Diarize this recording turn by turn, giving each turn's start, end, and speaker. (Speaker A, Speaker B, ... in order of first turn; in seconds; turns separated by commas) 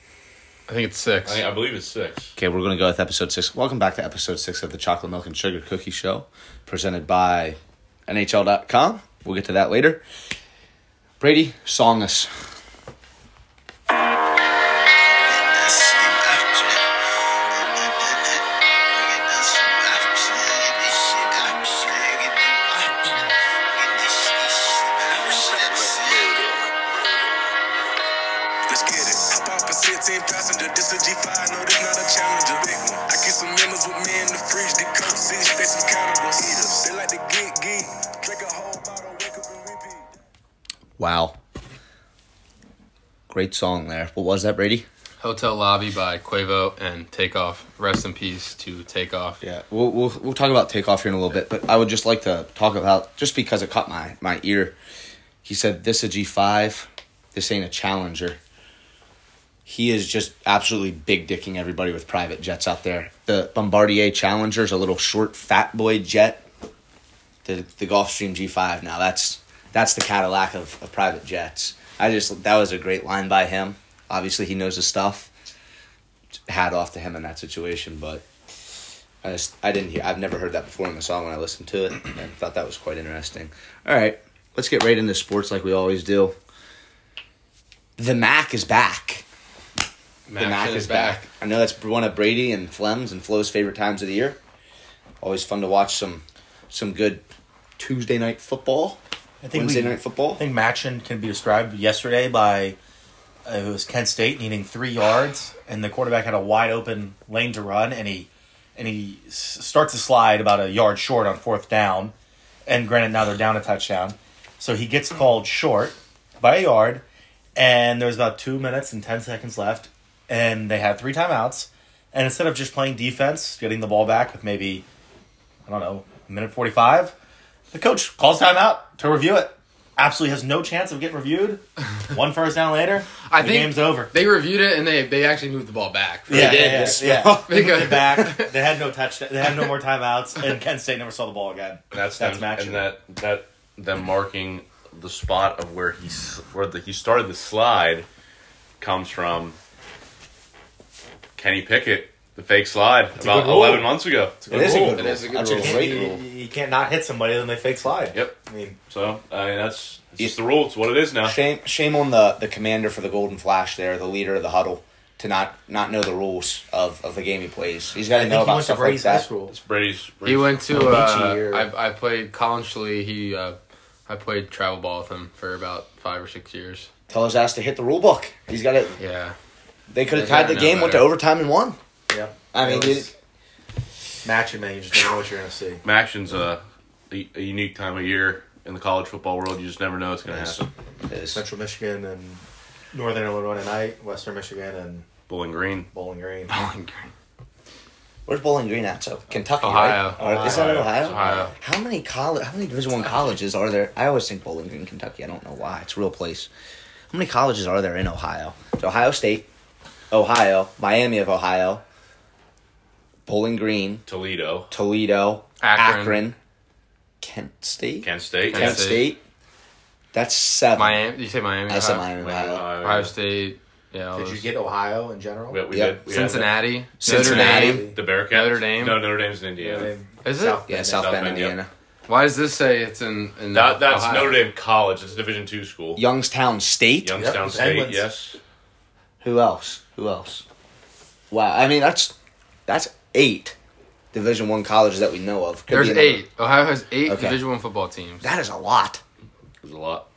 Speaker A: 0.7-1.4, Speaker B: 1.2-2.3, Speaker C: 2.4-10.0, Speaker C: 11.2-12.5, Speaker C: 15.2-16.8, Speaker C: 17.5-26.6, Speaker D: 25.1-26.4, Speaker D: 28.7-40.1, Speaker C: 41.0-41.4, Speaker C: 43.3-44.9, Speaker A: 45.2-49.4, Speaker C: 49.4-54.8, Speaker C: 55.4-58.4, Speaker C: 59.6-66.4, Speaker C: 67.4-75.3, Speaker C: 76.5-78.2, Speaker C: 79.2-86.3, Speaker C: 88.0-89.2, Speaker A: 90.3-91.2, Speaker C: 90.4-94.4, Speaker C: 95.2-97.2, Speaker C: 97.8-99.0, Speaker E: 99.4-102.8, Speaker C: 99.5-100.4, Speaker E: 103.4-112.1, Speaker E: 112.7-117.0, Speaker E: 117.5-124.8, Speaker E: 125.7-127.1, Speaker E: 127.7-134.1, Speaker A: 133.3-138.5, Speaker E: 136.3-142.9, Speaker C: 136.3-137.4, Speaker B: 141.9-148.1, Speaker B: 148.8-149.6, Speaker B: 151.4-154.9, Speaker E: 153.2-158.8, Speaker C: 154.5-156.2, Speaker A: 154.6-156.1, Speaker B: 158.9-161.4, Speaker C: 161.2-169.3, Speaker E: 168.1-169.5, Speaker B: 169.5-170.7, Speaker A: 170.2-176.9, Speaker E: 170.9-171.7, Speaker C: 177.1-179.0, Speaker A: 179.0-179.3, Speaker C: 179.9-181.8, Speaker A: 180.1-181.1, Speaker E: 182.1-183.1, Speaker C: 182.5-183.1, Speaker E: 184.2-185.8, Speaker B: 185.8-190.7, Speaker C: 190.2-191.4, Speaker E: 191.3-192.4, Speaker E: 192.9-195.1, Speaker B: 195.3-195.9, Speaker E: 195.9-196.5, Speaker A: 196.5-197.1, Speaker C: 198.2-206.5, Speaker A: 199.6-201.5, Speaker B: 200.2-201.5, Speaker E: 200.2-201.0, Speaker C: 207.1-209.5, Speaker C: 210.1-211.8, Speaker C: 213.3-214.0, Speaker B: 214.1-214.7, Speaker C: 214.7-216.4, Speaker A: 215.6-216.2, Speaker C: 217.2-219.2, Speaker B: 218.0-218.8, Speaker A: 218.5-219.1, Speaker C: 220.1-221.0, Speaker A: 220.8-222.1, Speaker C: 221.7-222.7, Speaker B: 222.2-223.1, Speaker A: 222.6-224.5, Speaker E: 224.1-225.6, Speaker B: 225.5-229.9, Speaker C: 225.7-226.0, Speaker A: 226.1-229.0, Speaker C: 227.0-227.9, Speaker E: 227.6-227.9, Speaker E: 229.6-231.4, Speaker A: 230.2-230.6, Speaker C: 230.7-231.7, Speaker B: 230.9-231.6, Speaker A: 232.1-234.4, Speaker B: 233.5-236.0, Speaker C: 235.9-237.2, Speaker B: 237.0-238.4, Speaker E: 237.2-238.0, Speaker C: 239.2-240.4, Speaker C: 241.3-242.1, Speaker C: 242.7-243.6, Speaker C: 244.1-246.2, Speaker A: 245.7-248.3, Speaker C: 247.0-247.4, Speaker C: 248.2-249.0, Speaker B: 249.6-250.1